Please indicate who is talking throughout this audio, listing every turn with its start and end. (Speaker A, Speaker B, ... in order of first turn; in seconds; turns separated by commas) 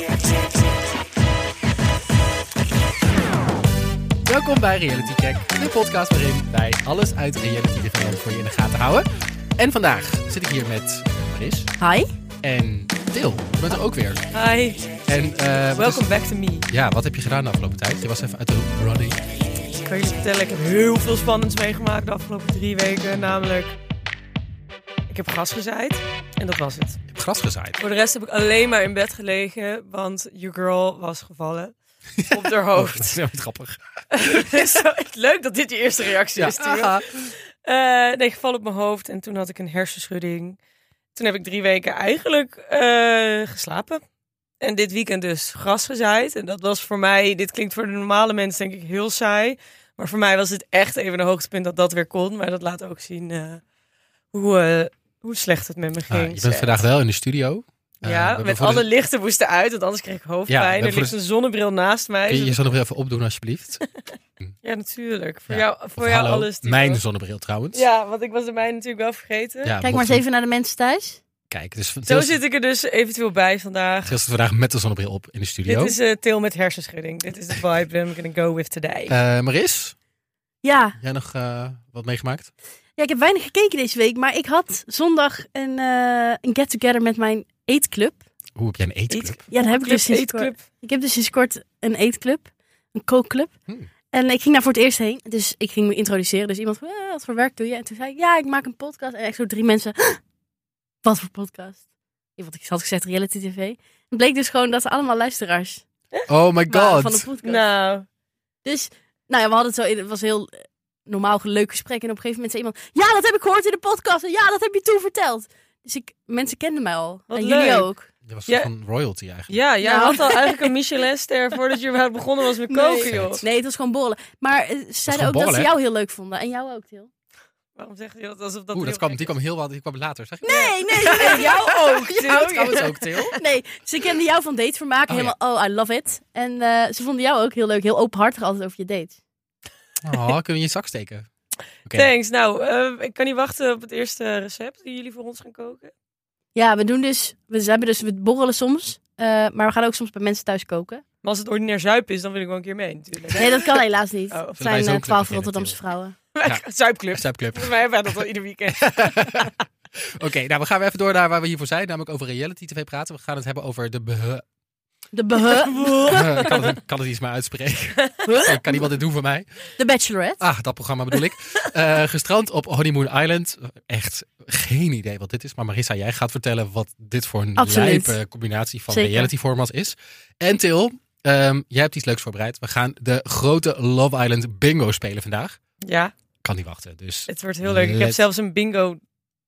Speaker A: 4.3-9.1, Speaker A: 9.6-11.7, Speaker B: 11.8-12.1, Speaker A: 12.4-14.3, Speaker C: 14.3-14.9, Speaker A: 15.1-16.1, Speaker C: 15.8-16.7, Speaker A: 16.7-19.2, Speaker C: 19.8-23.8, Speaker C: 25.1-27.0, Speaker A: 27.1-27.8, Speaker C: 27.8-31.8, Speaker A: 32.2-34.7, Speaker C: 32.3-33.2, Speaker C: 34.1-40.6, Speaker A: 36.4-37.1, Speaker C: 41.1-44.0, Speaker C: 44.6-53.6, Speaker C: 54.3-56.9, Speaker A: 56.1-58.9, Speaker C: 58.0-62.6, Speaker A: 60.5-61.1, Speaker A: 62.3-63.8, Speaker C: 64.6-67.0, Speaker A: 65.5-67.8, Speaker C: 67.7-69.7, Speaker A: 69.6-70.2, Speaker B: 69.8-71.2, Speaker A: 71.5-72.4, Speaker C: 72.1-74.2, Speaker A: 74.1-76.0, Speaker C: 75.7-79.2, Speaker A: 79.1-80.0, Speaker B: 80.6-81.0, Speaker A: 81.0-82.5, Speaker B: 83.0-88.2, Speaker A: 88.6-89.4, Speaker B: 89.1-93.5, Speaker C: 89.5-90.6, Speaker B: 94.1-100.2, Speaker B: 101.0-101.8, Speaker B: 102.4-105.8, Speaker A: 106.3-107.3, Speaker B: 106.7-107.6, Speaker C: 107.4-108.1, Speaker B: 108.7-118.1, Speaker C: 117.3-117.9, Speaker A: 118.3-119.6, Speaker C: 119.5-123.4, Speaker B: 119.8-120.7, Speaker B: 122.7-127.1, Speaker A: 123.0-123.4, Speaker A: 125.1-125.7, Speaker C: 127.8-129.3, Speaker A: 128.7-133.4, Speaker B: 130.4-139.2, Speaker C: 131.1-133.3, Speaker A: 135.1-135.3, Speaker A: 140.0-141.3, Speaker A: 141.8-142.1, Speaker C: 141.9-145.9, Speaker B: 146.6-151.0, Speaker C: 151.2-154.6, Speaker B: 153.3-156.2, Speaker A: 154.6-155.8, Speaker C: 156.3-159.5, Speaker A: 156.4-157.8, Speaker A: 158.7-164.4, Speaker B: 165.1-166.3, Speaker C: 165.8-166.6, Speaker A: 166.1-169.5, Speaker B: 168.2-168.9, Speaker B: 169.8-170.4, Speaker A: 170.4-185.6, Speaker B: 177.6-178.2, Speaker B: 178.9-179.3, Speaker C: 185.8-186.1, Speaker A: 186.4-188.2, Speaker C: 187.3-189.0